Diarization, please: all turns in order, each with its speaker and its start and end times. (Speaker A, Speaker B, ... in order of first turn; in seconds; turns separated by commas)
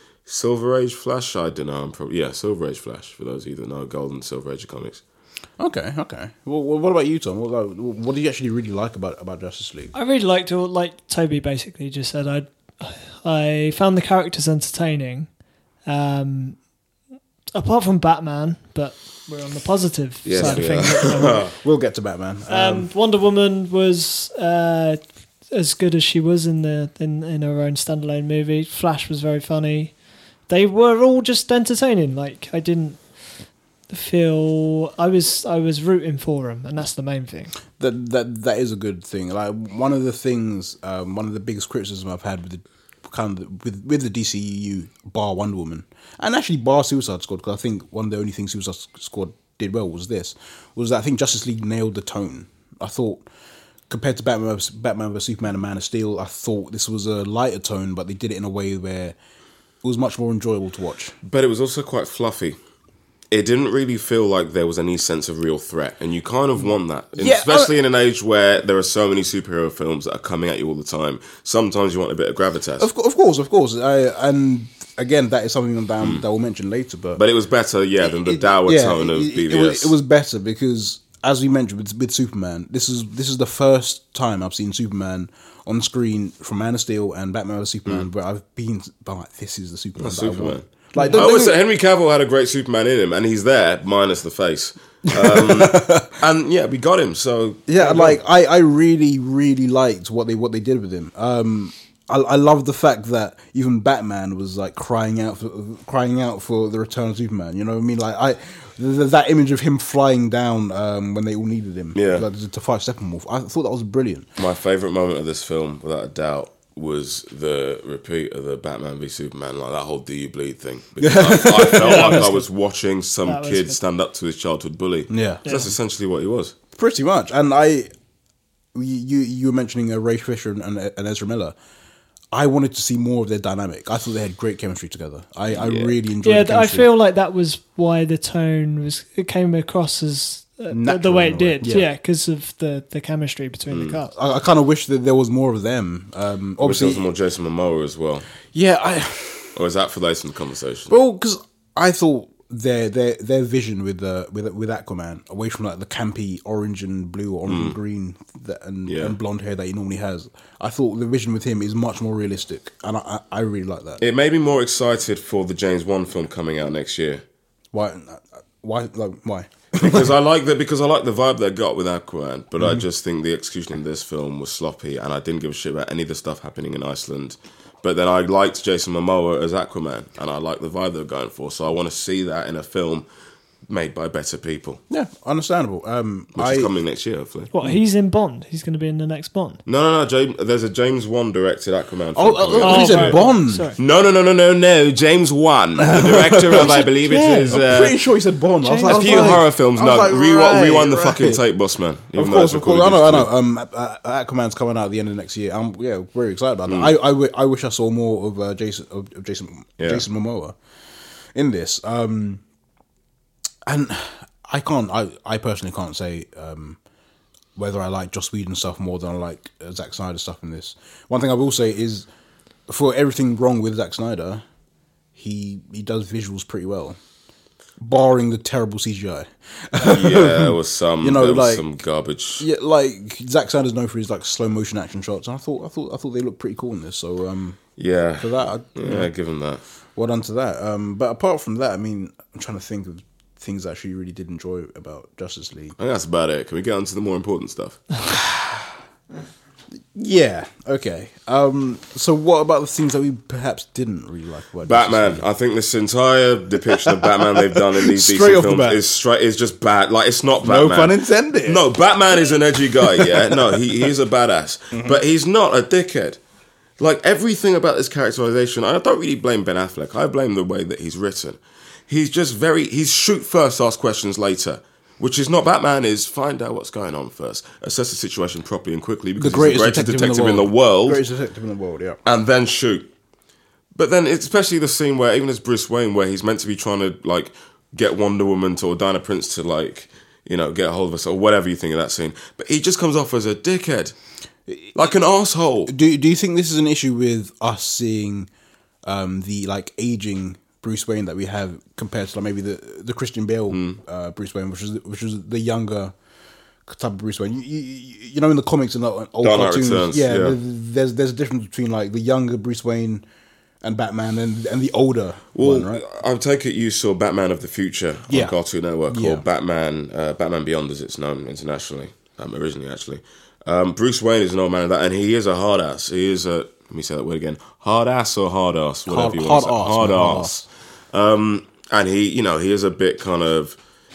Speaker A: 0.2-5.0, Speaker B: 5.6-9.9, Speaker C: 9.9-15.3, Speaker C: 15.8-16.6, Speaker C: 17.5-21.5, Speaker A: 20.2-21.4, Speaker B: 20.4-22.9, Speaker C: 22.5-30.0, Speaker C: 30.5-33.1, Speaker C: 33.9-37.5, Speaker B: 37.8-53.2, Speaker B: 53.9-59.1, Speaker B: 59.8-61.1, Speaker A: 61.2-62.6, Speaker A: 63.3-72.9, Speaker B: 67.2-67.7, Speaker B: 72.8-77.2, Speaker A: 77.2-79.9, Speaker B: 78.1-91.6, Speaker A: 90.0-98.2, Speaker C: 91.0-91.3, Speaker B: 95.1-96.2, Speaker B: 97.7-114.3, Speaker A: 111.9-112.2, Speaker A: 114.4-126.5, Speaker B: 121.0-122.2, Speaker C: 121.7-122.5, Speaker C: 123.2-123.8, Speaker B: 125.1-125.4, Speaker C: 125.4-125.7, Speaker B: 126.8-127.9, Speaker B: 128.7-131.5, Speaker B: 132.3-136.9, Speaker A: 135.5-135.9, Speaker C: 136.2-144.1, Speaker B: 140.7-141.9, Speaker A: 143.7-144.0, Speaker B: 144.1-147.1, Speaker A: 146.6-148.3, Speaker B: 148.5-149.6, Speaker A: 149.5-150.9, Speaker B: 150.9-164.0, Speaker A: 157.5-157.8, Speaker A: 158.8-159.1, Speaker A: 164.0-167.2, Speaker B: 167.7-170.1, Speaker A: 169.8-183.1, Speaker A: 183.7-184.8, Speaker B: 184.9-186.7, Speaker A: 186.3-187.5, Speaker C: 187.5-189.6, Speaker A: 189.7-193.2, Speaker B: 192.1-193.7, Speaker C: 192.6-193.8, Speaker A: 193.8-198.0, Speaker B: 195.8-201.4, Speaker C: 198.6-199.4, Speaker A: 198.8-203.3, Speaker B: 202.1-210.6, Speaker A: 206.7-206.9, Speaker A: 209.8-210.0, Speaker B: 211.3-212.4, Speaker B: 213.7-216.8, Speaker B: 217.6-222.1, Speaker B: 222.7-224.4, Speaker B: 225.1-227.0, Speaker B: 227.8-231.6, Speaker A: 229.8-232.4, Speaker B: 232.4-237.6, Speaker A: 237.8-239.6, Speaker B: 238.2-239.1, Speaker B: 239.9-245.8, Speaker A: 245.8-247.8, Speaker B: 248.1-248.7, Speaker B: 249.9-255.2, Speaker A: 254.6-266.2, Speaker B: 256.8-258.8, Speaker B: 260.4-261.6, Speaker B: 262.8-263.6, Speaker B: 264.7-265.0, Speaker A: 266.8-281.0, Speaker B: 279.2-282.0, Speaker A: 282.0-282.9, Speaker A: 283.7-293.9, Speaker B: 294.5-294.8, Speaker A: 294.7-295.7, Speaker B: 295.6-298.3, Speaker B: 298.8-305.9, Speaker A: 303.5-303.8, Speaker B: 306.7-313.0, Speaker A: 309.2-310.4, Speaker B: 313.6-315.8, Speaker A: 315.3-330.4, Speaker B: 318.1-318.4, Speaker B: 318.9-319.2, Speaker B: 328.9-330.4, Speaker A: 330.9-333.6